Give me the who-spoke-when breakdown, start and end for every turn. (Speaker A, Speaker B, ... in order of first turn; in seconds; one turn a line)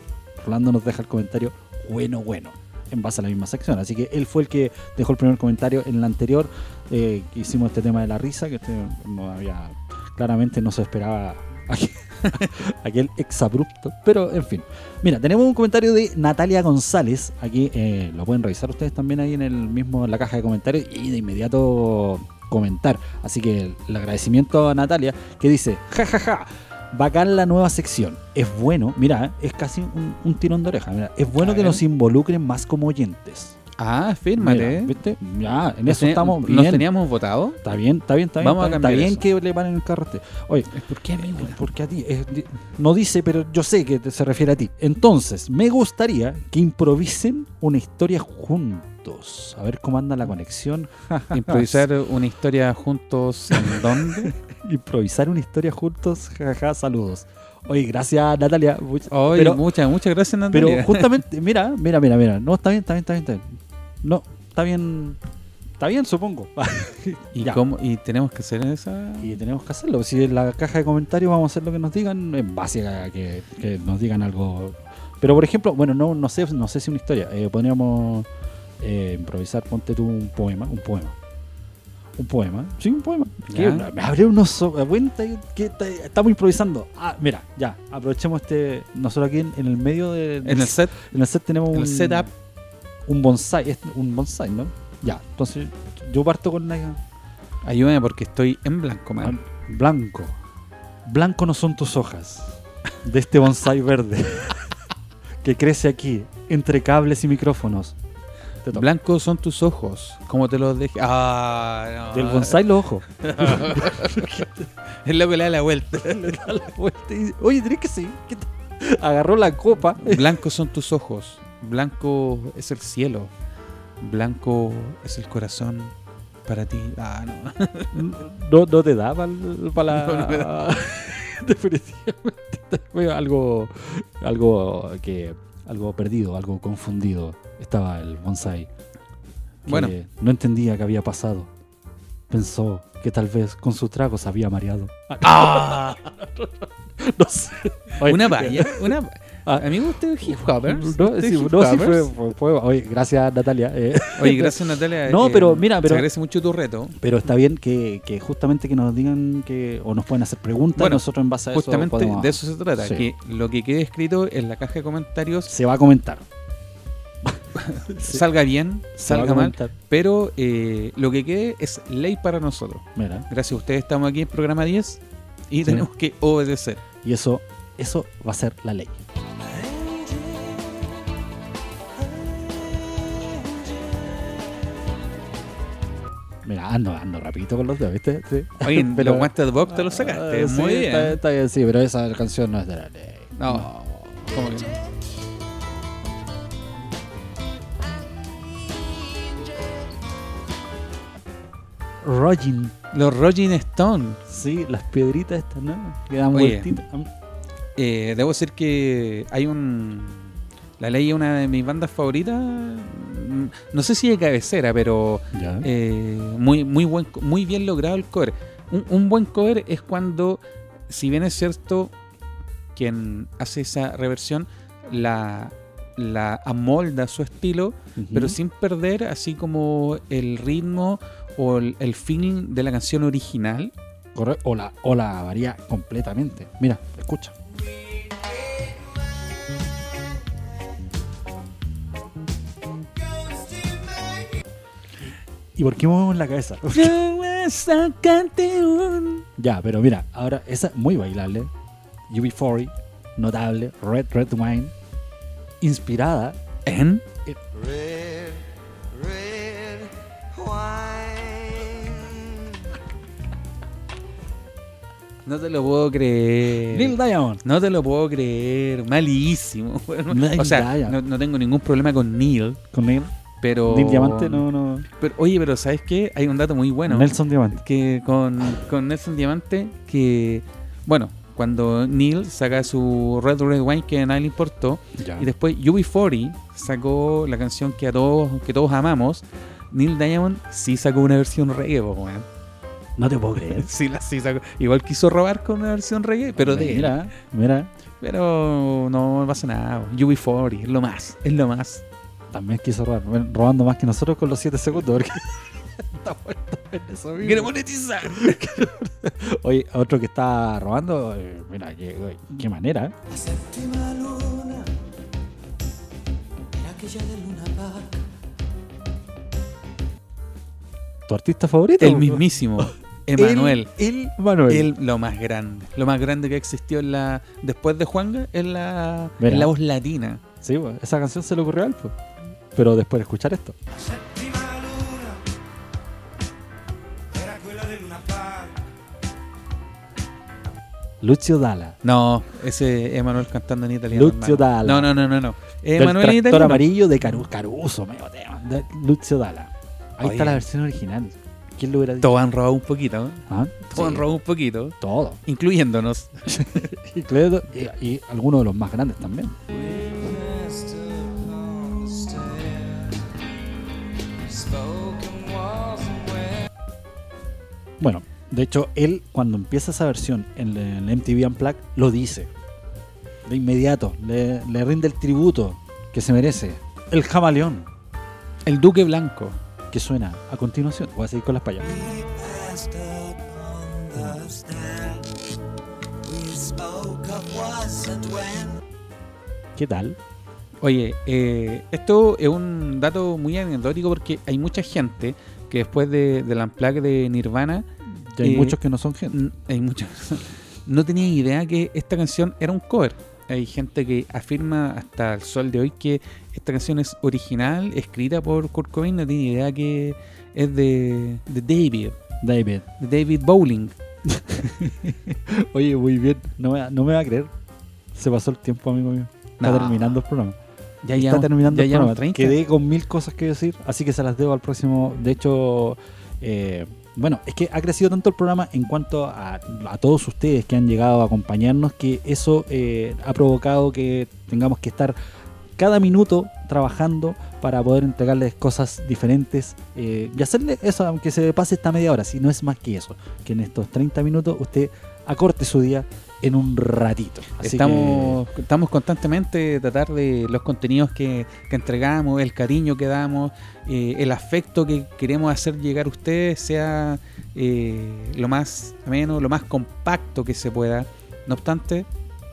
Speaker A: 0.4-33.5
Speaker B: 31.4-31.8
Speaker B: 33.8-35.0
Speaker A: 34.4-36.9
Speaker B: 35.9-37.6
Speaker A: 37.6-51.9
Speaker B: 38.4-39.2
Speaker B: 40.8-41.6
Speaker B: 51.3-54.3
Speaker A: 53.5-59.6
Speaker B: 59.1-61.2
Speaker A: 60.5-65.2
Speaker A: 65.8-67.6
Speaker B: 67.3-69.4
Speaker A: 69.2-78.3
Speaker A: 78.8-81.2
Speaker A: 82.2-92.3
Speaker B: 83.5-83.9
Speaker B: 90.4-91.0
Speaker B: 91.7-92.3
Speaker A: 93.1-97.0
Speaker B: 97.6-99.4
Speaker A: 99.2-100.3
Speaker A: 101.0-104.7
Speaker A: 105.4-108.0
Speaker B: 108.7-112.6
Speaker A: 112.1-114.7
Speaker B: 113.2-116.5
Speaker A: 116.0-120.4
Speaker B: 120.0-123.3
Speaker B: 124.0-125.9
Speaker B: 126.5-128.0
Speaker A: 127.9-138.7
Speaker B: 129.9-130.5
Speaker B: 139.7-139.9
Speaker A: 139.7-141.5
Speaker A: 142.3-156.1
Speaker B: 145.2-146.0
Speaker B: 148.0-152.1
Speaker B: 154.1-156.9
Speaker A: 156.9-163.1
Speaker B: 160.8-165.5
Speaker A: 165.5-166.2
Speaker A: 167.2-168.2
Speaker B: 167.6-176.8
Speaker A: 169.0-169.8
Speaker A: 172.9-173.3
Speaker A: 175.6-175.9
Speaker A: 177.0-179.0
Speaker C: 179.4-181.1
Speaker C: 182.0-184.8
Speaker A: 186.4-193.7
Speaker B: 188.6-191.2
Speaker B: 193.3-194.7
Speaker C: 197.9-199.8
Speaker A: 202.0-202.7
Speaker B: 202.9-204.2
Speaker A: 204.3-207.1
Speaker B: 206.3-206.7
Speaker B: 207.8-221.9
Speaker A: 215.3-215.7
Speaker B: 222.7-233.7
Speaker A: 227.9-228.4
Speaker A: 234.1-237.3
Speaker C: 237.5-239.7
Speaker C: 242.8-244.4
Speaker A: 245.0-247.0
Speaker B: 246.7-249.2
Speaker A: 249.4-251.5
Speaker A: 252.1-254.7
Speaker A: 255.6-256.4
Speaker B: 256.6-257.0
Speaker C: 257.5-262.6
Speaker B: 265.2-272.6
Speaker A: 266.6-267.4
Speaker A: 270.1-271.0
Speaker A: 272.7-273.1
Speaker B: 273.4-274.4
Speaker A: 273.6-274.9
Speaker B: 275.0-292.2
Speaker A: 276.9-277.6
Speaker A: 285.0-285.3
Speaker A: 293.0-293.7
Speaker B: 293.5-297.0
Speaker A: 296.3-297.7
Speaker B: 298.0-301.8
Speaker A: 302.3-312.9
Speaker B: 307.2-308.5
Speaker C: 313.1-314.7
Speaker C: 316.5-318.0
Speaker A: 321.1-324.7
Speaker B: 321.8-323.7
Speaker B: 324.5-330.2
Speaker A: 329.2-329.5
Speaker A: 330.4-332.0
Speaker A: 332.5-333.6
Speaker C: 333.9-335.2
Speaker C: 337.1-338.5
Speaker A: 341.0-341.8
Speaker B: 341.8-346.7
Speaker A: 343.9-344.9
Speaker A: 345.8-352.2
Speaker B: 350.0-350.4
Speaker B: 352.0-356.7
Speaker A: 353.3-354.1
Speaker A: 354.8-355.2
Speaker A: 356.3-359.4
Speaker C: 359.5-363.1
Speaker C: 364.2-366.5
Speaker A: 367.8-372.3
Speaker A: 373.2-377.7
Speaker B: 378.4-379.4
Speaker A: 379.7-381.8
Speaker C: 381.6-385.1
Speaker C: 386.0-388.6
Speaker A: 389.6-390.0
Speaker B: 390.6-397.7
Speaker A: 398.1-399.2
Speaker B: 398.2-398.6
Speaker B: 399.1-412.0
Speaker A: 412.2-412.6
Speaker B: 412.8-413.8
Speaker A: 414.1-417.3
Speaker A: 417.9-420.4
Speaker B: 419.4-419.9
Speaker B: 420.8-422.4
Speaker A: 420.9-434.9
Speaker A: 435.6-448.2
Speaker B: 447.4-461.9